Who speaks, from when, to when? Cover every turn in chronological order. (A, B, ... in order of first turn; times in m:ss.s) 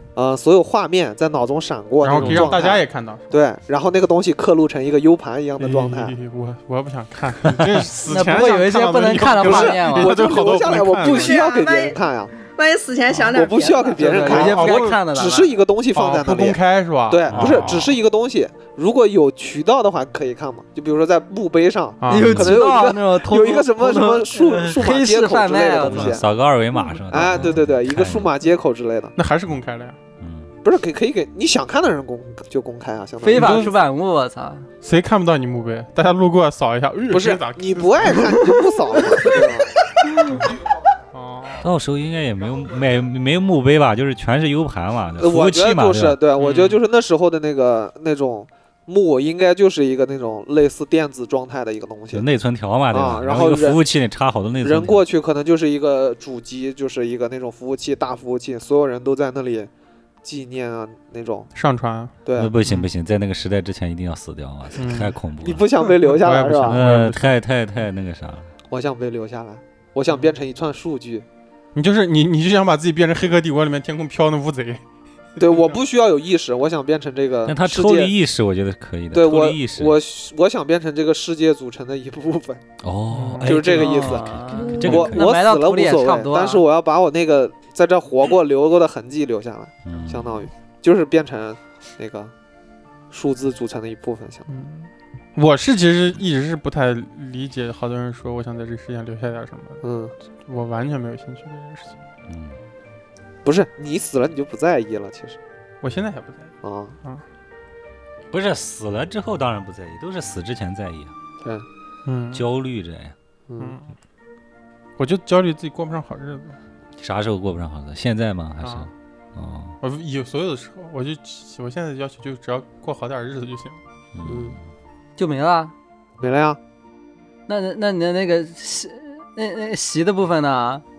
0:00.2-0:06.2 A
0:02.0-0:03.4 B
0:05.6-0:11.4 B
0:08.1-0:10.2 C
0:09.4-0:12.3 A
0:11.0-0:14.5 D
0:13.3-0:26.3 A
0:14.0-0:15.5 C
0:14.2-0:15.0 B
0:15.9-0:17.9 B
0:17.3-0:17.8 E
0:22.0-0:22.5 B
0:22.1-0:26.2 C
0:22.1-0:22.5 E
0:25.8-0:28.3 E
0:27.1-0:29.1 A
0:29.2-0:30.0 B
0:30.2-0:30.5 E
0:30.6-0:33.7 A
0:33.2-0:34.7 C
0:33.3-0:33.8 B
0:34.8-0:38.5 B
0:37.1-0:39.7 A
0:40.3-0:40.6 B
0:41.1-0:41.7 B
0:41.6-0:46.2 E
0:45.2-0:52.2 A
0:46.4-0:46.8 B
0:52.1-0:55.0 E
0:52.9-0:53.8 A
0:54.6-0:59.7 A
1:00.2-1:01.5 A
1:01.5-1:02.9 B
1:02.2-1:02.5 A
1:02.4-1:05.7 E
1:04.8-1:05.2 B
1:05.4-1:06.8 A
1:05.9-1:07.3 B
1:06.7-1:08.5 E
1:08.7-1:11.3 A
1:11.8-1:14.8 B
1:15.4-1:18.1 A
1:15.4-1:15.8 B
1:17.5-1:20.0 E
1:19.1-1:22.6 A
1:22.8-1:25.3 E
1:23.1-1:23.7 B
1:23.4-1:32.3 A
1:23.5-1:26.6 C
1:24.5-1:25.1 D
1:29.8-1:30.4 E
1:33.1-1:34.5 A
1:34.5-1:39.8 B
1:39.8-1:40.1 A
1:40.4-1:42.0 B
1:42.3-1:42.6 E
1:43.4-1:45.4 A
1:45.8-1:47.2 B
1:46.6-1:47.0 A
1:48.3-1:51.1 E
1:51.4-1:51.7 A
1:52.0-1:52.4 B
1:52.3-1:53.1 E
1:53.5-1:53.8 A
1:53.6-1:53.9 B
1:55.0-1:56.6 B
1:57.0-1:59.8 E
1:58.6-1:58.9 B
1:59.8-2:03.8 B
2:04.1-2:04.6 E
2:04.3-2:04.6 A
2:05.2-2:05.7 C
2:06.2-2:06.6 A
2:07.5-2:10.8 C